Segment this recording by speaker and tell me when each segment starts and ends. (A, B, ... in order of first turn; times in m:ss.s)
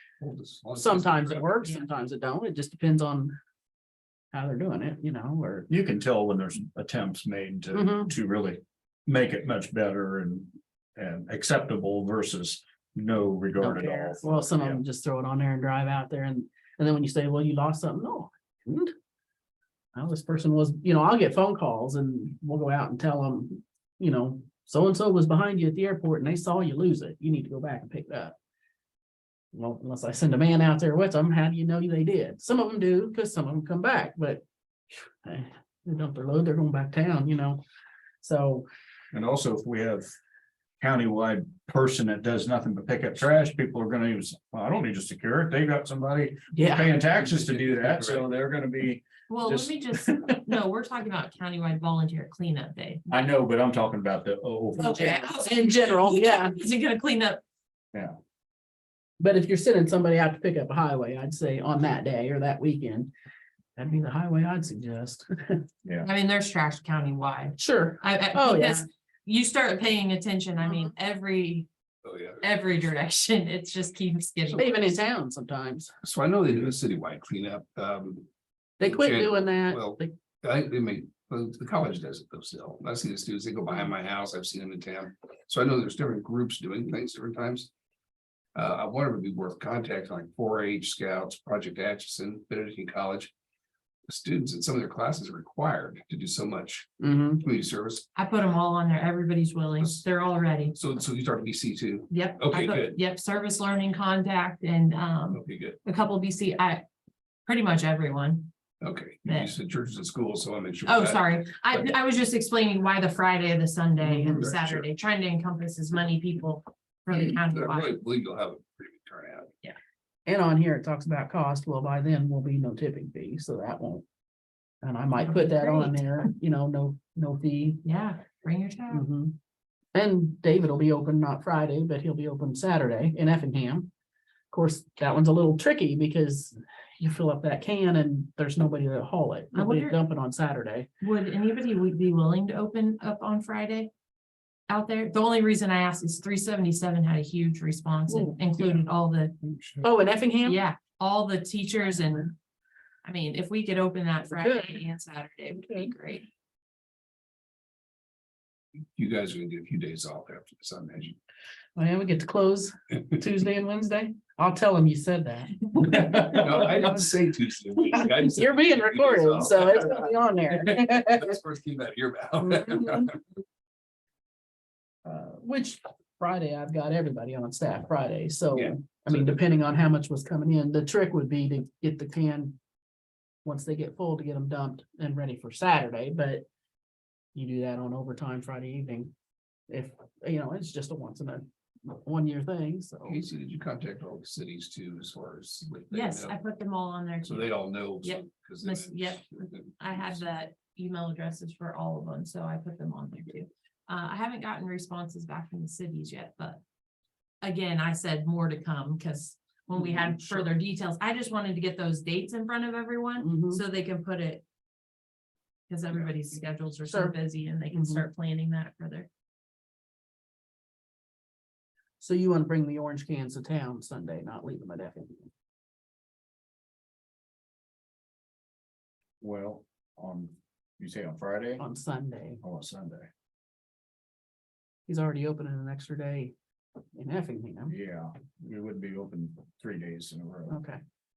0:00.2-0:01.5 A
0:00.7-0:03.4 B
0:04.3-0:05.7 B
0:05.7-0:14.8 C
0:07.7-0:08.1 B
0:13.6-0:18.9 B
0:19.9-0:28.3 B
0:29.5-0:37.6 B
0:38.2-0:38.7 B
0:39.1-0:40.1 C
0:40.8-0:49.9 C
0:46.5-0:46.9 B
0:47.1-0:48.2 A
0:49.3-0:53.2 D
0:53.1-0:55.1 C
0:54.8-0:56.6 B
0:54.8-0:57.4 D
0:59.2-1:03.1 B
1:03.8-1:05.6 B
1:06.0-1:11.7 D
1:07.6-1:08.8 B
1:12.0-1:12.6 A
1:12.4-1:15.0 D
1:14.5-1:15.9 B
1:16.0-1:18.3 A
1:18.8-1:20.1 B
1:18.8-1:27.7 A
1:28.5-1:33.3 A
1:34.1-1:38.1 A
1:37.0-1:37.4 B
1:38.1-1:40.7 D
1:40.7-1:43.0 A
1:42.1-1:46.8 D
1:45.3-1:45.8 A
1:47.4-1:48.5 D
1:48.8-1:51.9 A
1:49.2-1:49.5 D
1:50.8-1:58.0 D
1:54.0-1:54.5 B
1:54.0-1:54.9 A
1:57.1-1:59.5 A
2:00.2-2:04.0 B
2:04.8-2:07.8 B
2:05.2-2:06.2 D
2:07.8-2:09.1 D
2:08.9-2:09.4 B
2:09.9-2:13.9 B
2:14.5-2:20.9 B
2:19.5-2:20.0 D
2:21.0-2:23.9 D
2:24.7-2:29.3 D
2:28.1-2:28.3 B
2:28.6-2:28.8 A
2:29.4-2:29.9 A
2:29.8-2:30.6 B
2:30.4-2:32.4 D
2:33.0-2:36.3 D
2:34.3-2:34.8 B
2:35.5-2:35.9 B
2:38.9-2:41.2 A
2:41.8-2:47.0 B
2:45.8-2:53.2 A
2:47.9-2:51.3 B
2:52.4-2:53.1 B
2:55.0-3:02.6 B
2:58.5-2:59.6 A
3:03.4-3:06.4 B
3:07.3-3:09.1 B
3:09.7-3:13.2 B
3:13.0-3:16.4 A
3:15.9-3:26.6 D
3:17.2-3:20.2 A
3:27.4-3:34.4 D
3:30.2-3:30.5 A
3:33.2-3:33.6 B
3:35.7-3:39.1 D
3:36.8-3:37.2 B
3:37.7-3:38.1 B
3:42.0-3:45.3 B
3:49.2-3:51.6 C
3:51.6-3:52.4 B
3:52.4-3:53.1 C
3:54.9-3:56.3 B
3:56.9-3:57.7 B
3:57.7-4:00.6 C
4:00.5-4:00.8 B